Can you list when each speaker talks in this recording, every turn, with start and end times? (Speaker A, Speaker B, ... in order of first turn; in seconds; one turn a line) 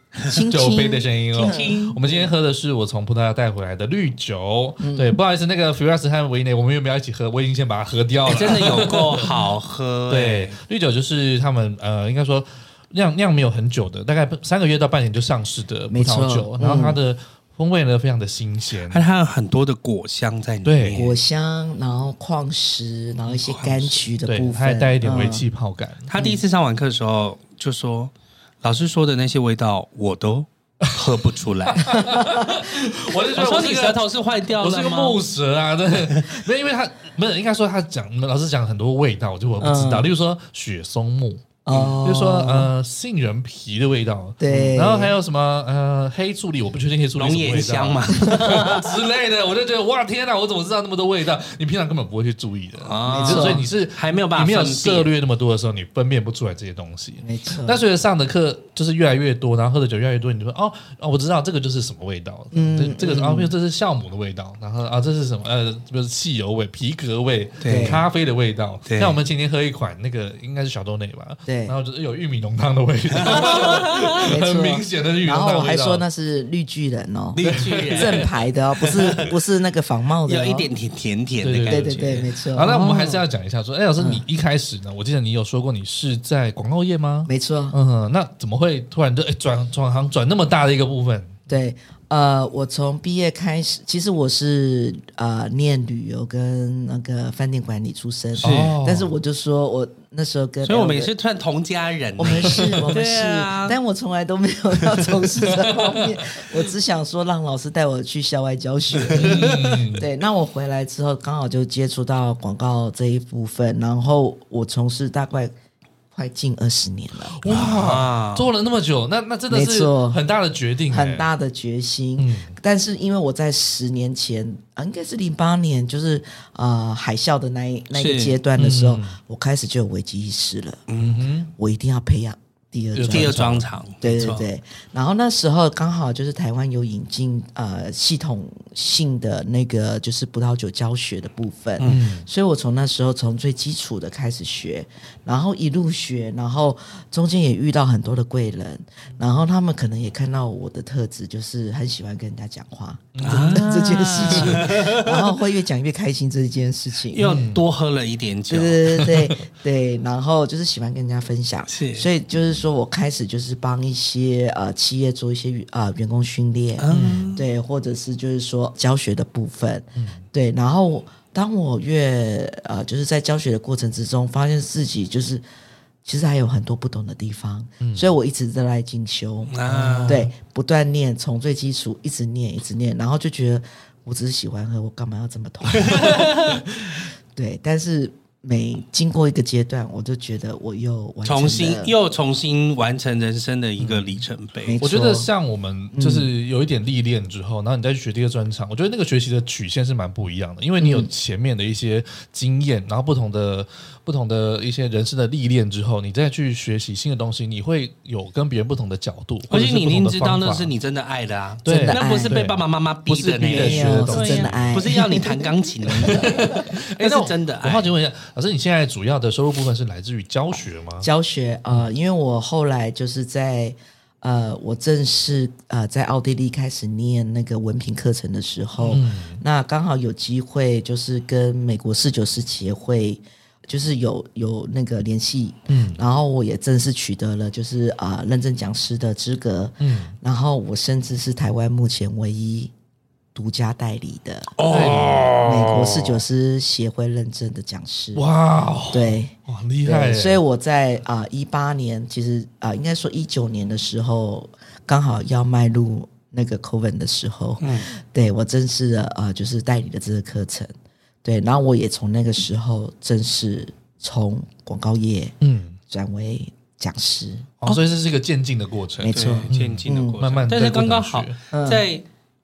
Speaker A: 0.3-2.0
Speaker B: 0.3-9.5
Speaker C: 1.4-2.2
Speaker A: 4.8-5.2
Speaker C: 8.3-10.6
Speaker B: 10.1-19.0
Speaker A: 15.9-17.0
Speaker C: 18.9-21.2
Speaker B: 20.6-21.0
Speaker A: 20.9-25.4
Speaker C: 23.3-24.1
Speaker B: 24.3-26.1
Speaker C: 26.1-31.9
Speaker B: 31.7-76.0
Speaker A: 31.9-32.6
Speaker C: 33.3-35.2
Speaker C: 36.0-36.3
Speaker A: 39.6-40.1
Speaker A: 41.6-42.7
Speaker A: 44.4-45.1
Speaker C: 47.2-49.0
Speaker C: 52.8-55.1
Speaker A: 53.1-53.7
Speaker A: 57.2-57.8
Speaker A: 62.5-63.5
Speaker C: 67.6-68.0
Speaker A: 67.7-68.0
Speaker C: 68.9-69.2
Speaker A: 71.5-71.8
Speaker C: 73.1-74.2
Speaker A: 74.2-80.7
Speaker C: 77.3-79.3
Speaker B: 77.5-78.5
Speaker C: 80.3-83.2
Speaker B: 81.4-91.5
Speaker A: 81.7-82.9
Speaker A: 84.0-84.2
Speaker A: 87.3-87.8
Speaker A: 91.5-101.1
Speaker C: 98.4-98.7
Speaker B: 98.4-99.2
Speaker C: 100.6-103.8
Speaker A: 102.2-115.5
Speaker B: 105.5-106.4
Speaker C: 109.0-109.8
Speaker B: 109.2-110.1
Speaker A: 116.1-117.4
Speaker B: 117.4-121.3
Speaker C: 117.5-118.5
Speaker A: 119.5-120.2
Speaker A: 120.9-130.9
Speaker B: 122.2-122.5
Speaker C: 127.9-128.4
Speaker B: 128.6-129.2
Speaker C: 130.9-131.2
Speaker B: 131.0-131.5
Speaker A: 131.6-157.4
Speaker B: 132.9-133.7
Speaker C: 133.1-134.5
Speaker B: 141.8-142.3
Speaker B: 153.2-153.7
Speaker C: 153.2-155.2
Speaker B: 154.3-154.7
Speaker C: 157.1-159.1
Speaker B: 157.2-157.6
Speaker A: 158.5-175.4
Speaker C: 161.7-162.1
Speaker C: 166.8-167.4
Speaker B: 166.9-167.3
Speaker B: 170.0-170.2
Speaker A: 176.1-179.6
Speaker B: 177.8-178.1
Speaker C: 179.5-180.2
Speaker B: 179.7-180.3
Speaker A: 180.1-186.3
Speaker C: 185.7-186.6
Speaker B: 186.7-187.0
Speaker A: 187.3-191.9
Speaker C: 191.2-194.8
Speaker B: 193.8-194.2
Speaker A: 194.7-195.3
Speaker B: 194.8-210.7
Speaker A: 195.9-196.3
Speaker A: 200.8-201.1
Speaker C: 209.5-217.9
Speaker A: 211.7-212.4
Speaker B: 211.7-214.9
Speaker A: 213.4-215.4
Speaker B: 215.9-221.1
Speaker A: 216.0-216.4
Speaker A: 221.0-242.7
Speaker B: 228.8-229.4
Speaker B: 235.7-236.0
Speaker B: 239.8-240.2
Speaker A: 243.3-248.3
Speaker C: 244.6-246.2
Speaker B: 244.7-245.2
Speaker B: 248.2-250.4
Speaker A: 248.9-260.7
Speaker C: 257.6-257.9
Speaker A: 261.2-265.4
Speaker B: 265.4-265.8
Speaker A: 265.9-267.5
Speaker B: 267.6-271.4
Speaker A: 269.0-270.2
Speaker C: 269.1-272.1
Speaker A: 271.5-271.9